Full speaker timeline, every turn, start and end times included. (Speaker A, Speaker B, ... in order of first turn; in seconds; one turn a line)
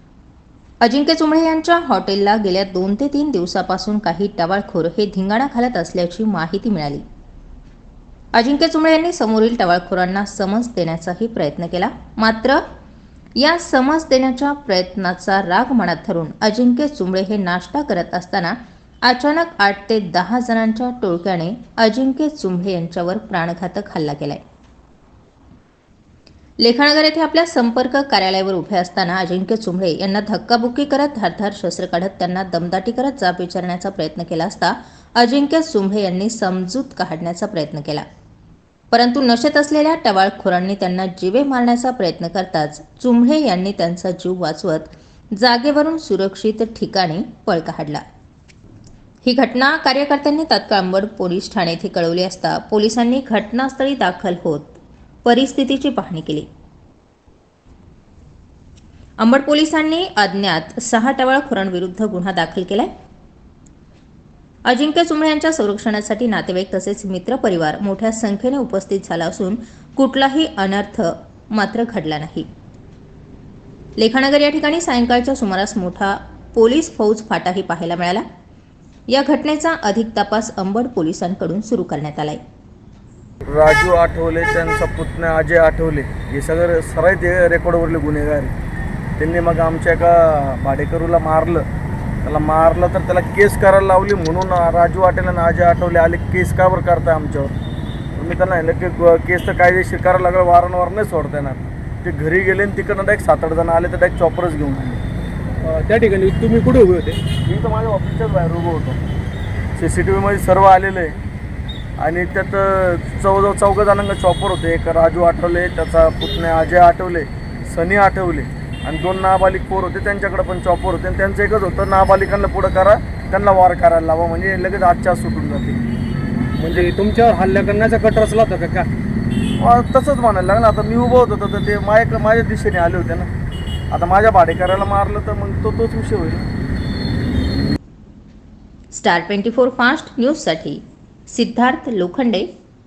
Speaker A: 0.8-7.0
Speaker A: 8.3-12.6
Speaker A: 13.3-24.4
Speaker A: 26.6-38.0
Speaker A: 38.9-48.0
Speaker A: 49.2-56.5
Speaker A: 59.2-62.9
Speaker A: 64.7-72.5
Speaker A: 74.0-78.2
Speaker A: 79.1-82.4
Speaker B: 83.4-88.5
Speaker B: 89.2-91.7
Speaker B: 92.2-97.5
Speaker B: 98.1-105.0
Speaker C: 105.6-107.2
Speaker B: 107.4-109.0
Speaker B: 109.8-111.2
Speaker B: 112.0-125.8
Speaker C: 126.6-128.9
Speaker B: 129.6-133.3
Speaker B: 133.9-136.5
Speaker A: 138.9-142.5